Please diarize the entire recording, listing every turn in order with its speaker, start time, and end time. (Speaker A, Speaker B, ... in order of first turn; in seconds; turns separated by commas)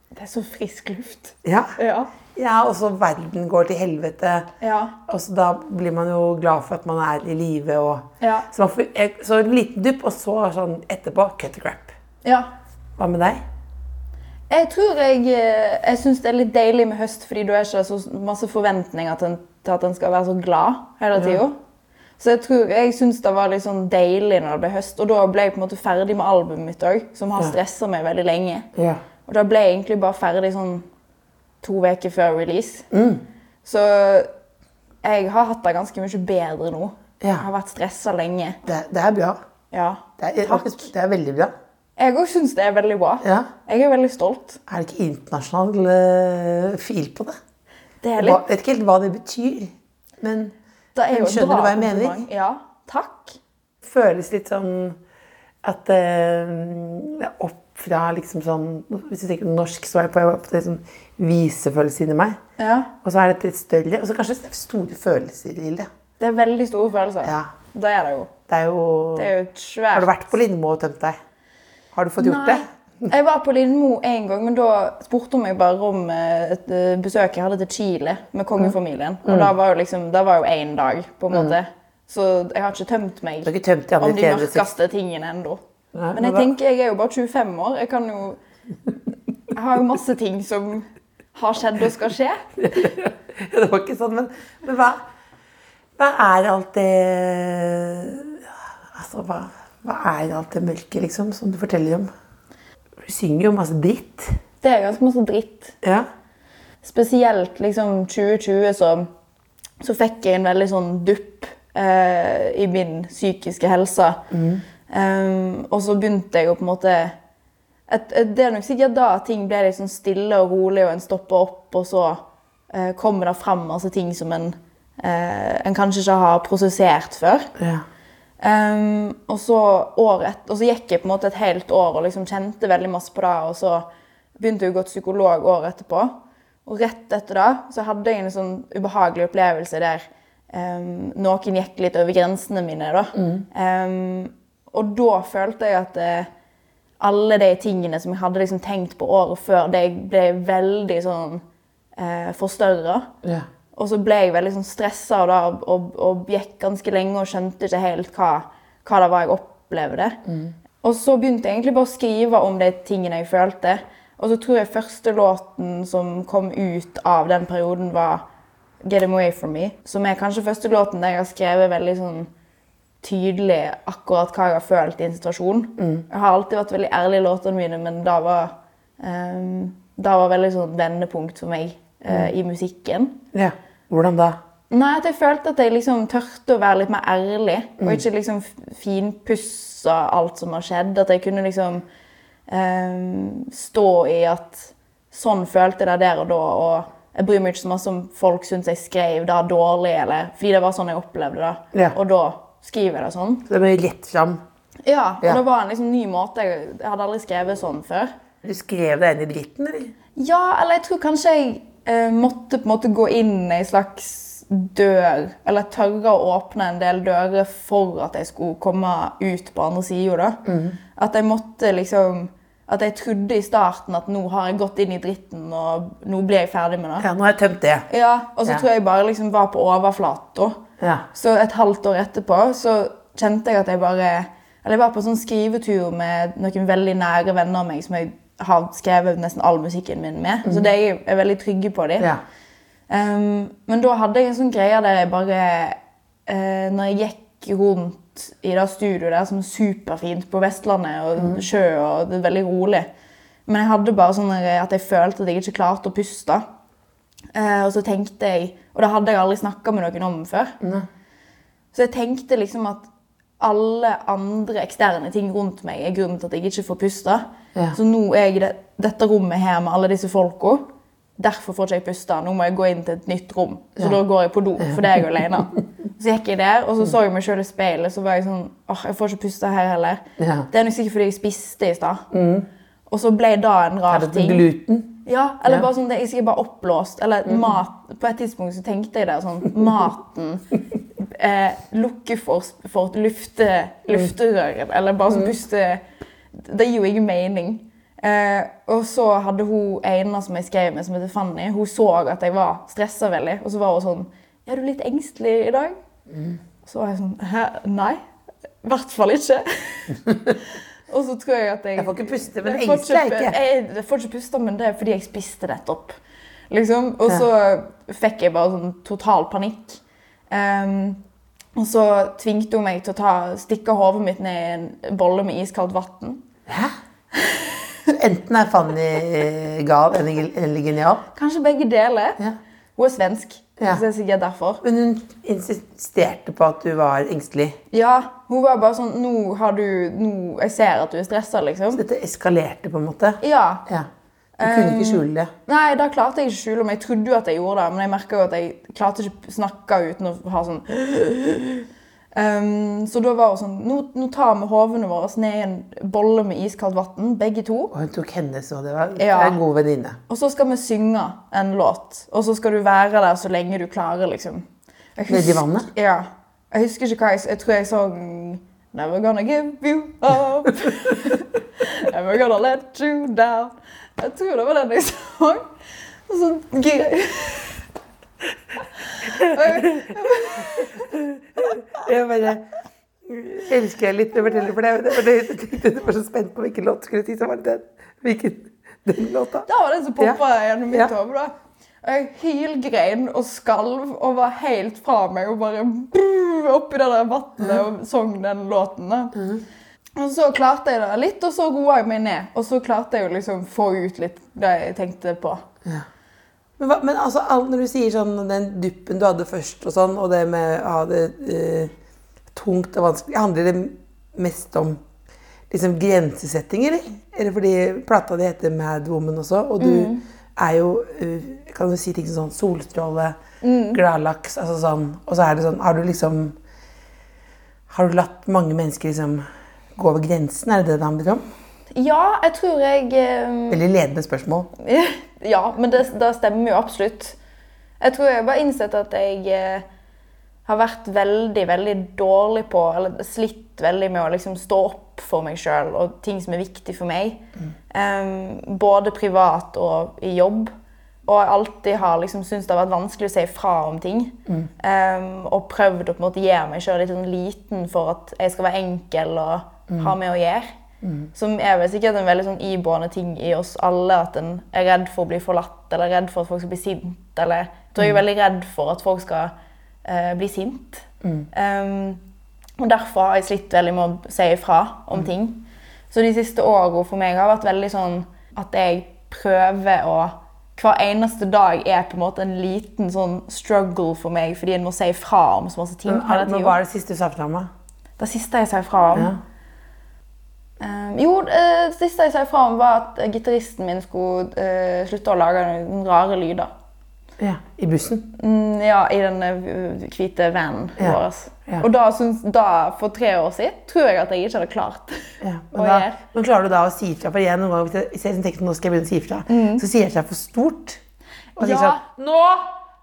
Speaker A: 0.1-2.1, Speaker B: 1.4-1.8, Speaker B: 2.4-4.5, Speaker A: 4.6-5.0, Speaker B: 5.1-11.9, Speaker A: 8.2-8.5, Speaker A: 12.2-12.5, Speaker B: 13.0-13.4, Speaker A: 14.5-21.6, Speaker B: 21.1-21.4, Speaker A: 22.2-28.7, Speaker B: 28.8-29.0, Speaker A: 29.2-30.9, Speaker A: 31.6-32.9, Speaker B: 32.9-33.2, Speaker A: 33.6-34.3, Speaker A: 35.0-38.6, Speaker B: 37.2-37.5, Speaker B: 38.6-39.4, Speaker A: 39.7-40.9, Speaker B: 40.2-41.5, Speaker A: 42.0-44.6, Speaker B: 43.2-43.5, Speaker B: 44.7-47.4, Speaker A: 48.0-48.4, Speaker B: 48.2-50.5, Speaker A: 50.9-53.4, Speaker B: 51.1-52.2, Speaker B: 53.8-55.0, Speaker B: 55.6-62.4, Speaker A: 62.6-62.9, Speaker B: 63.0-65.9, Speaker A: 66.2-68.3, Speaker B: 67.2-67.5, Speaker B: 68.5-69.3, Speaker A: 69.2-70.1, Speaker B: 69.9-71.2, Speaker B: 71.9-73.1, Speaker A: 72.2-85.6, Speaker B: 79.2-79.5, Speaker B: 81.3-81.5, Speaker B: 83.4-84.7, Speaker B: 85.9-86.5, Speaker A: 86.1-88.4, Speaker A: 89.5-92.4, Speaker B: 92.6-95.0, Speaker B: 96.0-102.1, Speaker B: 103.0-104.4, Speaker A: 104.6-105.8, Speaker B: 105.8-106.1, Speaker A: 106.8-109.1, Speaker A: 109.8-114.3, Speaker B: 114.3-114.6, Speaker A: 114.9-117.2, Speaker A: 117.9-127.5, Speaker B: 127.6-127.8, Speaker A: 128.4-133.9, Speaker A: 134.4-146.3, Speaker B: 143.2-143.5, Speaker A: 147.0-151.4, Speaker A: 152.0-153.1, Speaker A: 153.7-160.2, Speaker B: 160.2-160.5, Speaker A: 160.8-168.2, Speaker A: 168.8-172.3, Speaker A: 173.0-183.2, Speaker B: 175.8-176.1, Speaker B: 183.3-184.4, Speaker A: 184.7-191.8, Speaker A: 192.5-203.5, Speaker B: 203.5-204.4, Speaker A: 204.9-208.1, Speaker B: 208.4-209.9, Speaker A: 210.2-227.1, Speaker B: 220.5-220.8, Speaker B: 227.0-227.9, Speaker A: 227.9-230.6, Speaker B: 230.8-231.1, Speaker A: 231.1-242.1, Speaker A: 242.9-252.9, Speaker B: 251.2-251.4, Speaker A: 253.5-256.4, Speaker A: 257.3-260.6, Speaker B: 260.6-260.9, Speaker A: 261.7-262.9, Speaker A: 263.4-282.1, Speaker B: 274.6-275.4, Speaker B: 280.2-280.5, Speaker B: 282.1-282.5, Speaker A: 282.9-284.4, Speaker B: 283.9-285.7, Speaker A: 285.0-290.4, Speaker B: 287.2-287.6, Speaker A: 291.0-295.8, Speaker A: 296.3-305.8, Speaker B: 306.1-306.4, Speaker A: 306.6-308.0, Speaker A: 308.6-310.2, Speaker A: 310.9-316.0, Speaker B: 311.8-313.4, Speaker A: 316.5-321.0, Speaker A: 321.6-326.2, Speaker B: 326.5-326.7, Speaker A: 327.1-327.6, Speaker B: 327.9-331.1, Speaker A: 331.1-332.2, Speaker A: 332.8-334.6, Speaker B: 334.6-337.6, Speaker A: 337.7-341.8, Speaker B: 341.7-343.9, Speaker A: 343.2-343.6, Speaker A: 344.4-357.7, Speaker B: 344.4-345.3, Speaker B: 357.7-360.0, Speaker A: 359.0-359.4, Speaker A: 360.1-375.5, Speaker B: 365.1-365.7, Speaker A: 376.1-377.6, Speaker A: 378.9-380.9, Speaker B: 379.0-382.5, Speaker B: 383.1-389.5, Speaker A: 389.5-399.1, Speaker B: 399.1-399.4, Speaker A: 400.0-405.4, Speaker B: 406.6-411.7, Speaker B: 412.3-414.8, Speaker B: 415.5-423.2, Speaker A: 419.6-420.0, Speaker A: 423.4-423.8, Speaker B: 423.7-426.4, Speaker B: 427.7-431.2, Speaker A: 431.7-433.6, Speaker B: 433.5-434.5, Speaker A: 434.6-437.2, Speaker A: 437.8-439.6, Speaker A: 440.5-450.5, Speaker A: 451.0-460.5, Speaker B: 460.8-461.1, Speaker A: 461.1-469.3, Speaker A: 469.8-472.0, Speaker A: 472.6-486.6, Speaker B: 485.9-487.5, Speaker A: 488.0-489.1, Speaker B: 488.9-489.2, Speaker A: 490.6-496.5, Speaker B: 497.2-498.1, Speaker A: 498.1-506.0, Speaker B: 500.8-501.6, Speaker B: 505.2-510.8, Speaker A: 509.3-509.6, Speaker B: 511.4-512.5, Speaker A: 511.4-511.8